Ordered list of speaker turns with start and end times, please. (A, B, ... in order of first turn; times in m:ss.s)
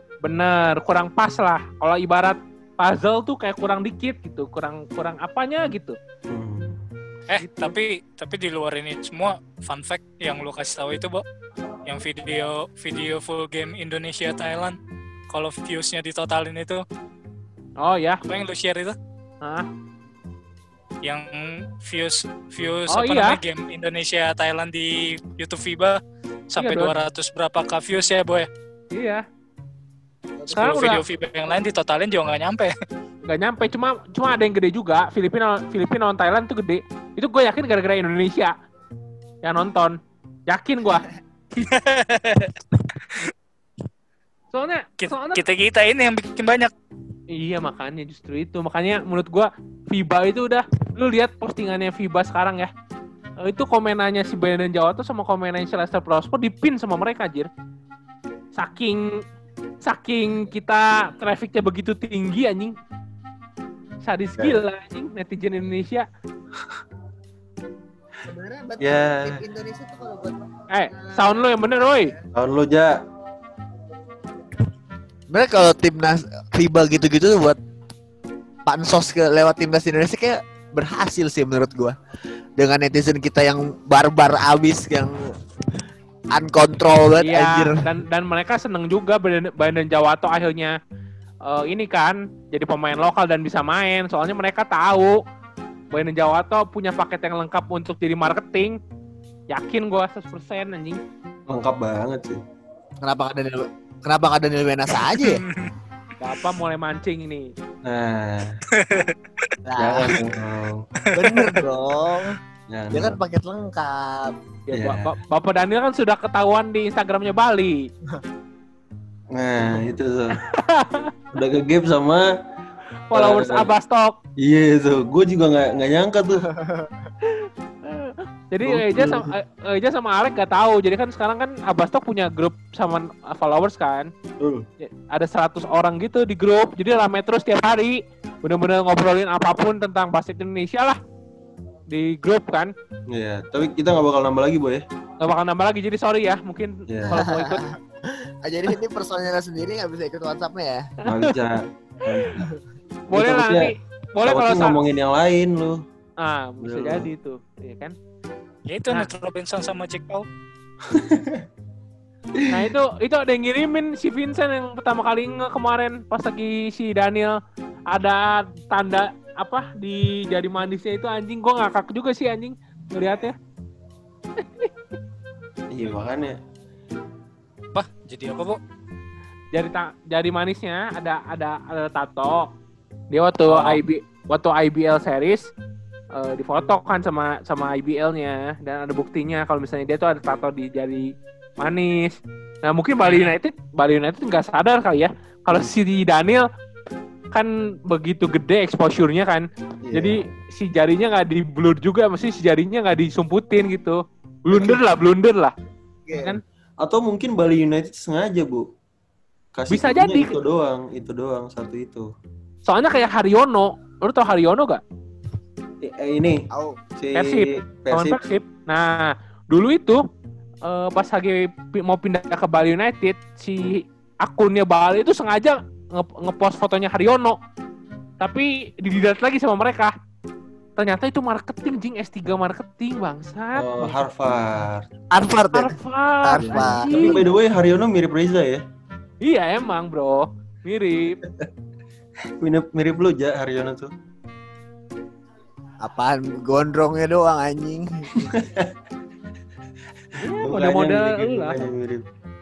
0:00.2-0:06.0 A
0:06.3-0:06.8 B
0:07.3-0:11.2 C
0:07.4-0:07.8 A
0:11.8-0:14.8 C
0:15.3-0:16.8 C
0:17.8-0:18.2 A
0:18.2-0:19.0 C
0:21.0-0:26.0 C
0:22.9-0:23.4 A
0:26.5-0:28.5 C
0:26.6-0:26.9 A
0:28.9-0:29.2 A
0:30.4-0:31.0 D
0:30.5-0:32.7 C
0:30.5-0:31.0 A
0:33.3-0:38.5 A
0:39.4-0:40.0 A
0:40.5-0:41.1 A
0:41.6-0:43.3 C
0:44.5-0:45.4 A
0:45.0-0:46.7 C
0:47.3-0:52.7 A
0:53.4-0:57.5 A
0:58.6-0:59.1 A
0:59.8-1:02.8 A
1:04.0-1:06.1 A
1:08.3-1:12.2 D
1:08.8-1:09.4 B
1:10.7-1:12.1 A
1:12.4-1:12.9 B
1:15.3-1:17.6 D
1:18.7-1:22.0 D
1:22.6-1:25.3 D
1:26.3-1:27.8 D
1:27.2-1:30.8 A
1:31.5-1:35.2 A
1:35.9-1:38.8 A
1:39.5-1:41.0 A
1:41.5-1:42.4 B
1:43.0-1:45.4 D
1:45.1-1:45.7 C
1:46.2-1:47.5 A
1:47.8-1:48.6 B
1:48.7-1:49.5 C
1:49.6-1:50.2 D
1:49.8-1:50.9 B
1:51.1-1:52.4 D
1:51.2-1:51.7 C
1:52.7-1:53.2 B
1:52.9-1:54.3 D
1:54.7-1:57.9 A
1:54.7-1:55.1 B
1:59.3-2:00.4 B
2:00.5-2:01.1 A
2:01.3-2:02.3 B
2:03.1-2:04.2 A
2:03.1-2:03.7 B
2:04.4-2:06.5 B
2:06.5-2:06.9 D
2:07.3-2:14.1 A
2:08.6-2:09.3 B
2:14.4-2:14.6 B
2:14.8-2:21.0 A
2:21.9-2:22.7 A
2:23.1-2:24.8 B
2:25.2-2:27.6 A
2:26.9-2:27.2 B
2:27.2-2:30.9 D
2:31.0-2:32.5 B
2:33.1-2:34.8 A
2:33.1-2:33.7 B
2:34.2-2:35.8 B
2:36.2-2:38.0 A
2:36.6-2:37.1 B
2:38.7-2:40.3 C
2:40.9-2:41.4 B
2:42.4-2:42.7 B
2:42.5-2:47.4 A
2:47.9-2:53.4 A
2:54.4-2:54.7 A
2:55.7-2:56.4 B
2:57.7-2:58.6 C
2:59.5-3:02.5 A
3:03.1-3:05.4 A
3:06.2-3:11.1 A
3:11.6-3:16.4 A
3:13.1-3:13.3 C
3:17.3-3:25.5 A
3:19.8-3:20.2 B
3:26.1-3:26.4 D
3:26.1-3:26.4 A
3:26.8-3:28.7 B
3:29.5-3:32.1 B
3:29.7-3:30.4 A
3:32.7-3:34.8 A
3:35.8-3:36.4 B
3:36.5-3:36.8 D
3:37.0-3:38.2 B
3:37.2-3:40.0 A
3:40.7-3:47.4 A
3:48.2-3:49.9 A
3:50.8-3:54.0 A
3:53.6-3:54.9 B
3:55.1-3:57.2 D
3:55.5-3:57.2 A
3:56.4-3:58.6 B
3:59.2-4:01.2 A
4:02.4-4:03.9 B
4:05.8-4:08.3 D
4:08.2-4:08.7 B
4:10.2-4:11.6 A
4:10.4-4:12.0 B